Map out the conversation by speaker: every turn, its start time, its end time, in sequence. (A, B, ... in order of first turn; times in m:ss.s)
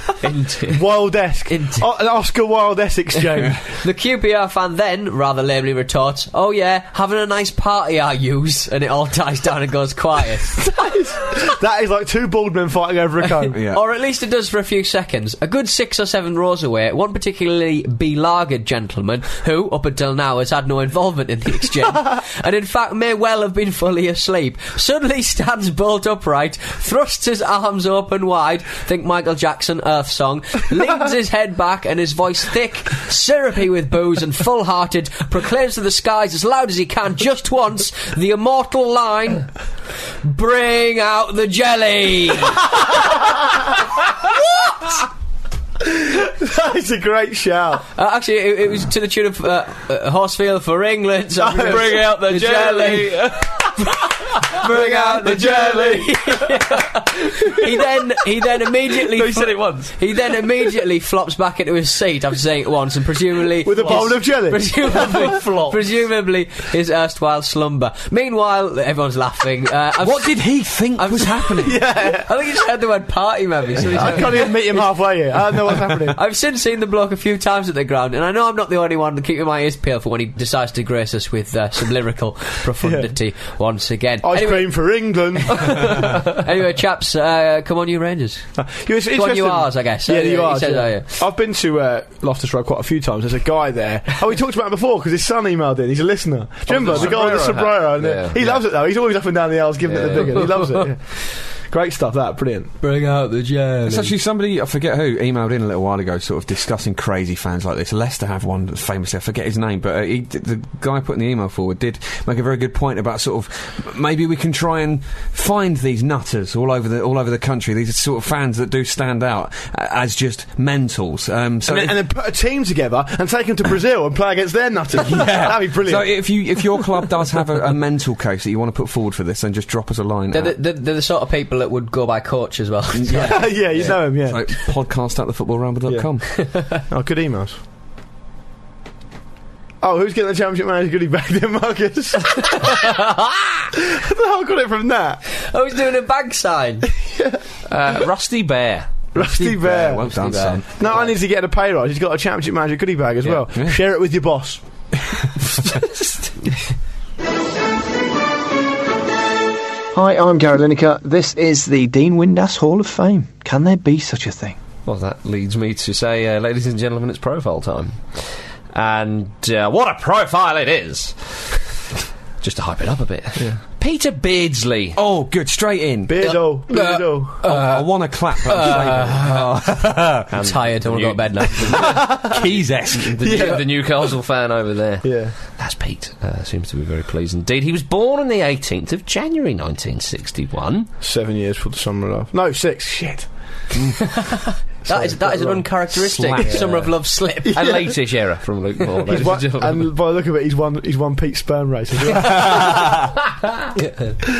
0:00.2-0:00.8 A
0:00.7-0:03.7 B
0:01.5-0:01.9 C
0:03.6-0:10.7 C
0:10.6-0:13.6 B
0:13.4-0:39.5 C
0:13.5-0:13.8 D
0:40.2-0:42.7 C
0:45.8-0:47.8 B
0:47.9-1:15.3 C
0:51.4-0:52.0 B
0:51.6-0:56.1 A
0:54.6-0:56.1 B
0:57.2-0:57.6 A
0:59.1-1:00.0 A
1:03.6-1:05.4 B
1:05.0-1:05.8 A
1:10.0-1:11.8 D
1:11.6-1:12.3 B
1:13.9-1:16.2 B
1:15.8-1:31.1 C
1:22.8-1:23.1 B
1:24.2-1:26.1 B
1:28.6-1:42.7 B
1:36.6-1:38.6 A
1:39.8-1:40.6 A
1:40.2-1:40.9 C
1:42.8-1:44.2 C
1:43.8-2:02.0 D
2:01.7-2:06.5 B
2:04.9-2:10.6 D
2:10.3-2:13.6 C
2:12.9-2:16.3 D
2:13.1-2:14.5 B
2:15.8-2:17.6 B
2:19.8-2:22.9 B
2:23.9-2:25.2 B
2:25.4-2:26.8 C
2:27.0-2:27.4 B
2:27.7-2:28.9 A
2:29.1-2:30.1 B
2:29.2-2:30.7 D
2:29.3-2:31.2 C
2:30.8-2:34.9 B
2:39.9-2:44.6 E
2:44.8-2:51.6 A
2:52.4-2:55.0 A
2:54.9-2:56.4 D
2:56.0-2:57.4 B
2:56.2-2:59.4 C
2:57.4-3:00.3 D
3:00.3-3:02.0 C
3:00.3-3:02.4 A
3:01.6-3:03.2 D
3:03.1-3:10.9 A
3:03.2-3:03.8 B
3:05.0-3:05.3 B
3:11.0-3:13.3 B
3:14.1-3:17.9 C
3:14.8-3:15.9 B
3:15.9-3:16.9 D
3:17.4-3:17.9 B
3:17.5-3:19.9 A
3:19.0-3:23.0 B
3:23.8-3:24.1 C